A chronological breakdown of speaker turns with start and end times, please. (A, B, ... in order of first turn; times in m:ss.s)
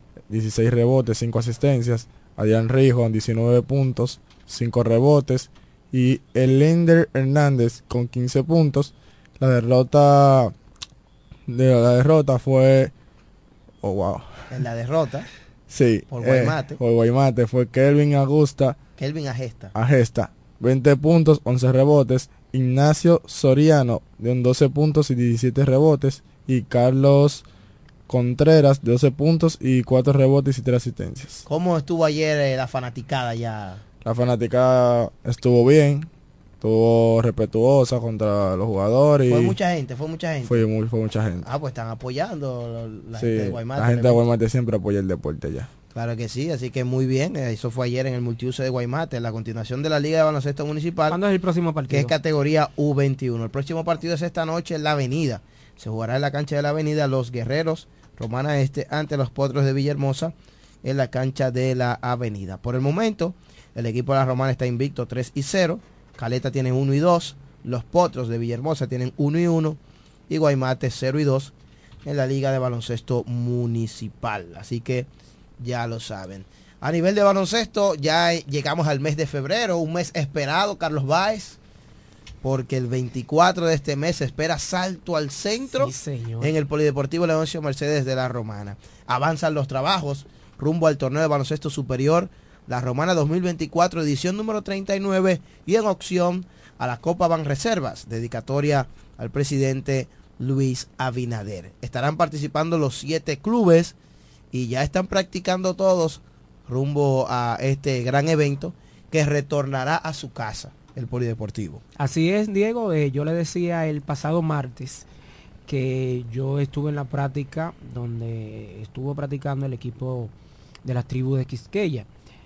0:00.3-0:10.5 A
0:11.5-0:12.9 A
0:13.8-0:14.4 A
0:14.5-0:15.3 B
0:15.7-0:18.8 A
0:16.1-0:16.8 B
0:19.0-0:19.7 B
0:19.7-0:27.4 A
0:28.1-0:31.4 A
0:31.5-0:33.8 B
0:34.0-0:36.1 A
0:36.6-0:39.6 A
0:39.3-0:40.6 B
0:40.4-0:41.5 A
0:41.4-0:44.2 B
0:43.1-0:45.7 A
0:45.9-0:51.2 B
0:51.1-0:52.1 C
0:51.9-1:09.8 B
1:10.3-1:11.5 B
1:12.0-1:15.1 B
1:15.6-1:21.6 B
1:22.4-1:44.0 B
1:25.8-1:26.5 C
1:44.5-1:51.8 B
1:52.0-1:55.1 C
1:55.7-2:00.3 C
2:00.8-2:02.1 C